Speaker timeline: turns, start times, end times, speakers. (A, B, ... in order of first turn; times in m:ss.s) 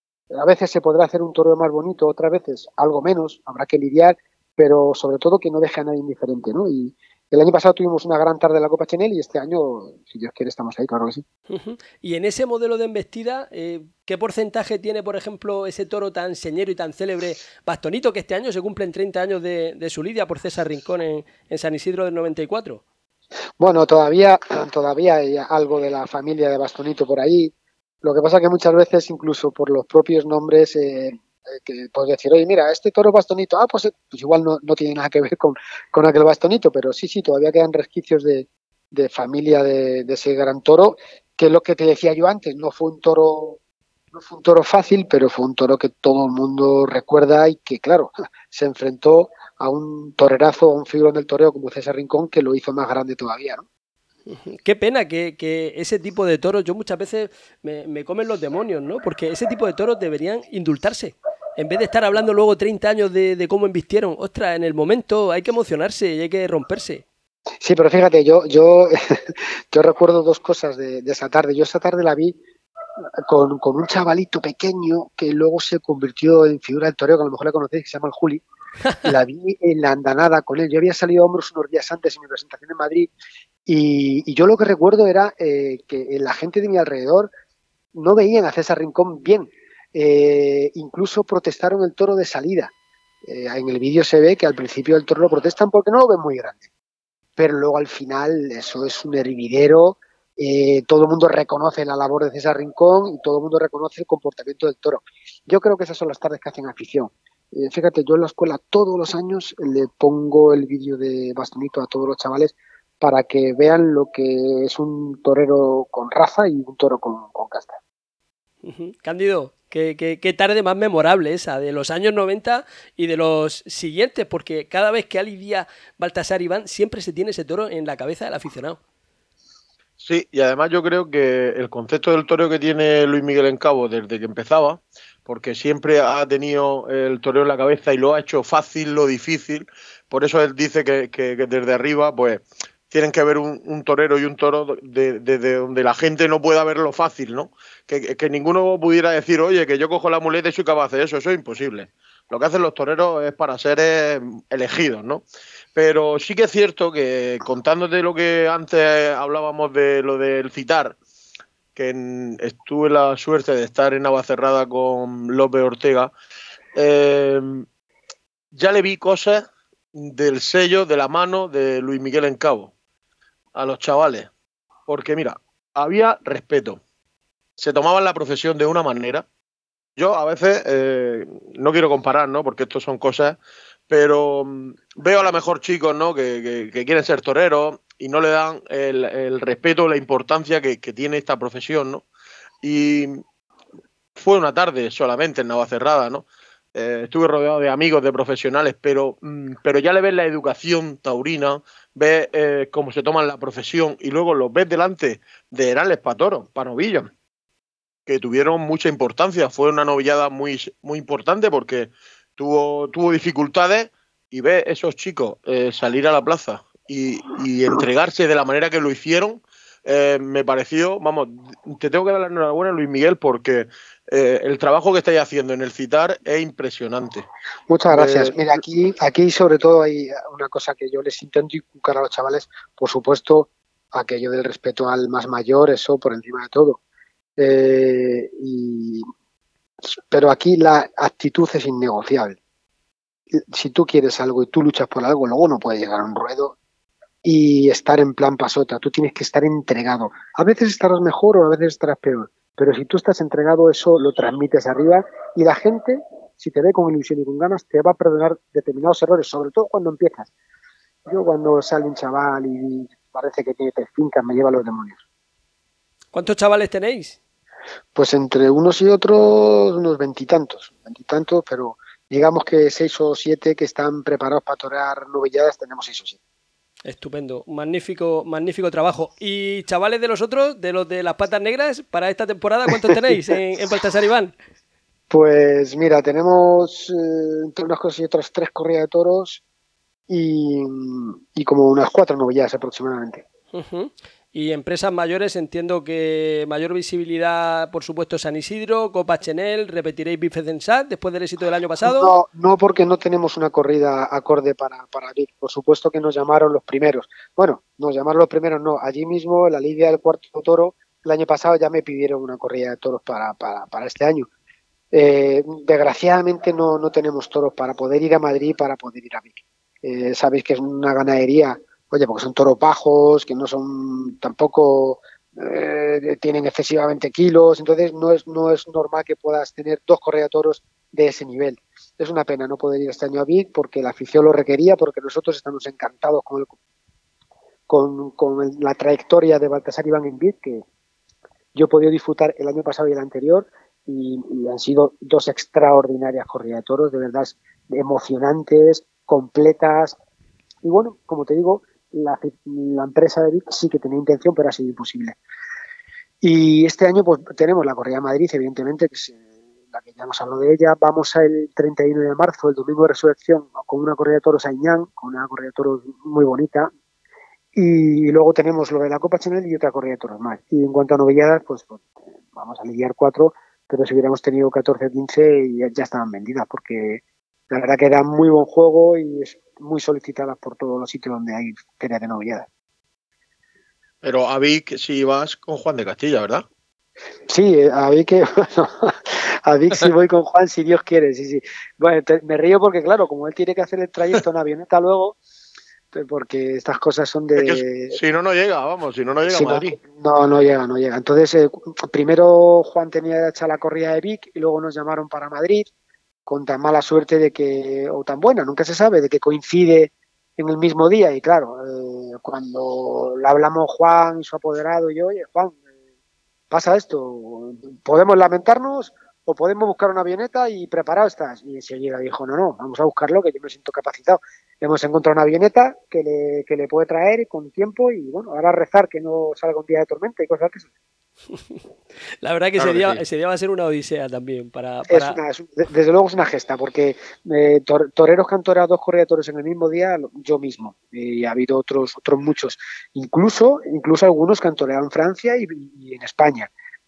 0:00.3-0:11.2 A
0:11.5-0:22.8 B
0:23.6-0:43.6 A
0:44.1-0:53.6 A
0:54.3-1:07.0 B
1:07.6-1:12.4 A
1:13.3-1:18.4 A
1:19.0-1:23.1 A
1:23.7-1:27.3 A
1:27.9-1:32.7 A
1:33.2-1:36.7 A
1:37.4-1:57.8 A
1:58.6-2:08.8 B
2:10.0-2:35.2 C
2:35.8-2:41.0 C
2:41.8-2:46.1 C
2:46.8-2:47.6 C
2:48.5-2:52.7 C
2:53.5-2:54.3 C
2:54.9-2:56.8 C
2:57.6-2:59.2 C
3:00.0-3:03.4 C
3:03.9-3:12.0 C
3:12.6-3:13.2 C
3:14.2-3:27.1 C
3:28.1-3:47.3 C
3:47.7-3:56.8 A
3:47.9-3:48.6 C
3:57.4-3:59.1 A
3:59.9-4:02.4 A
4:03.3-4:06.5 A
4:07.2-4:20.3 A
4:21.1-4:25.0 A
4:26.1-4:27.2 B
4:27.9-4:36.2 A
4:36.8-4:44.3 B
4:45.1-4:49.4 A
4:50.1-4:53.2 A
4:53.5-5:02.1 B
5:01.8-5:14.3 A
5:14.9-5:36.5 A
5:37.7-5:40.6 A
5:41.5-5:50.0 A
5:50.6-5:55.2 A
5:56.2-6:06.7 A
6:07.6-6:22.5 A
6:24.0-6:26.4 C
6:27.3-6:35.2 A
6:35.9-6:38.0 A
6:37.4-6:39.8 C
6:39.2-6:45.7 A
6:46.2-6:55.6 A
6:56.5-7:10.7 A
7:12.2-7:15.2 B
7:12.6-7:13.0 C
7:14.9-7:26.5 A